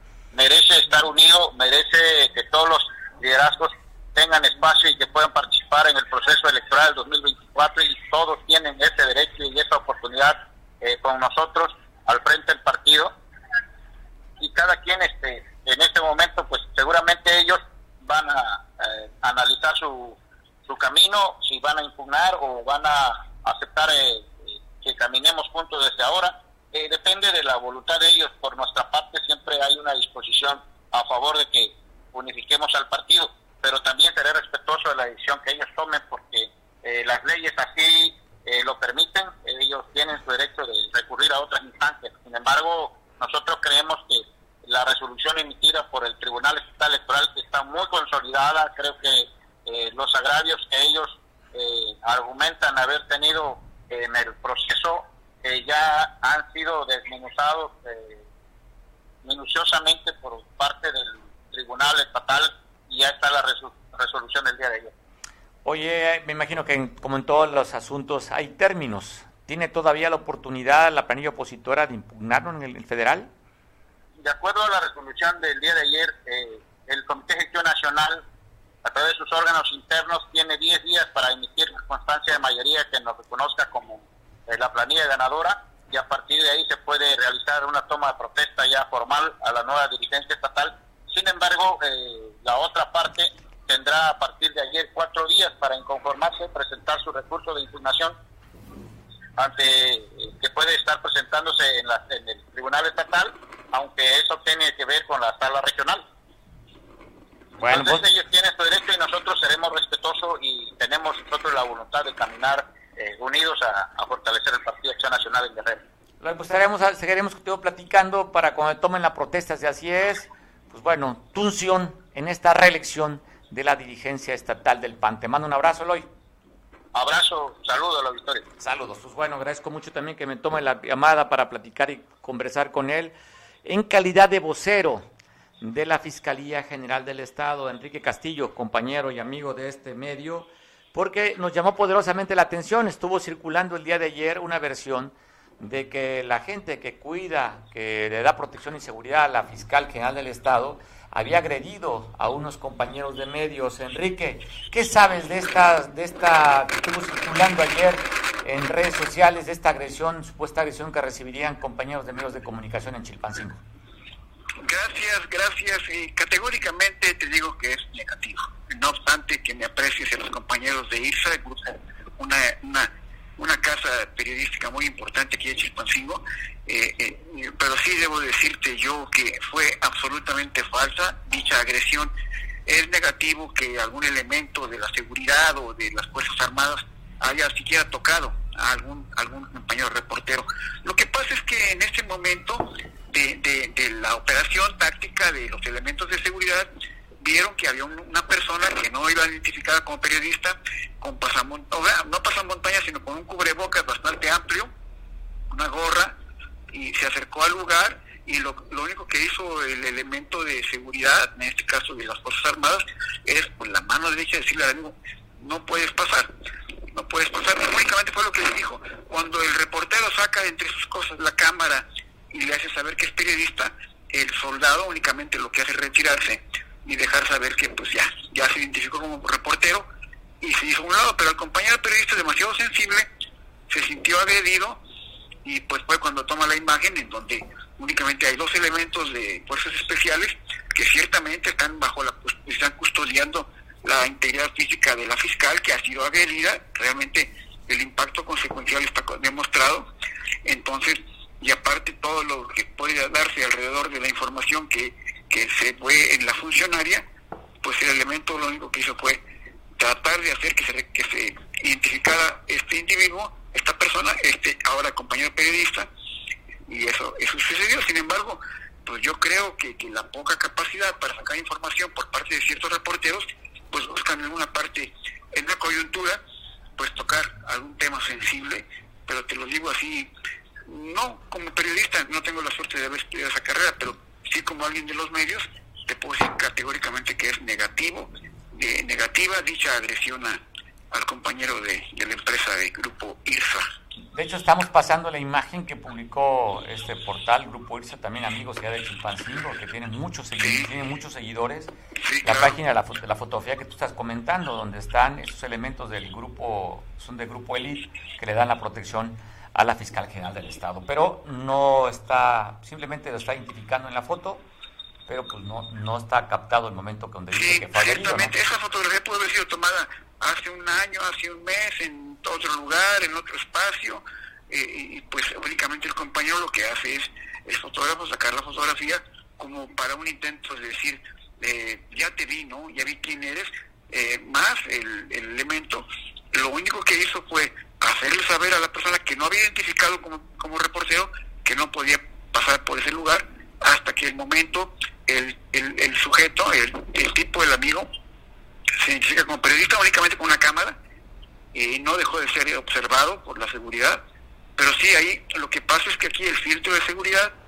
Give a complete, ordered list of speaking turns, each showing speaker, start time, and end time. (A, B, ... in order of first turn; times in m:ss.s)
0:00.3-0:13.1 A
0:14.4-0:58.2 A
0:59.2-1:04.9 A
1:05.6-1:13.3 B
1:14.2-1:18.2 A
1:18.8-1:38.1 A
1:39.4-1:46.0 A
1:47.6-1:48.1 B
1:47.7-1:55.8 A
1:56.2-2:06.1 B
2:06.9-2:08.5 A
2:08.6-2:15.1 B
2:15.6-2:43.6 B
2:44.6-3:02.1 C
3:02.7-3:24.7 C
3:25.5-3:26.2 C
3:26.7-3:36.3 C
3:36.9-3:49.9 C
3:50.4-3:53.1 C
3:53.7-3:54.8 C
3:55.4-4:09.9 C
4:10.4-4:17.0 C
4:17.6-4:19.2 C
4:19.8-4:25.9 C
4:26.7-4:36.2 C
4:36.8-4:40.1 C
4:40.7-4:53.7 C
4:54.1-5:01.7 B
5:00.4-5:00.7 C
5:02.0-5:02.6 C
5:02.2-5:14.4 B
5:15.1-5:18.3 B
5:17.3-5:47.9 C
5:48.8-5:50.8 C
5:51.5-5:54.0 C
5:54.6-5:57.3 C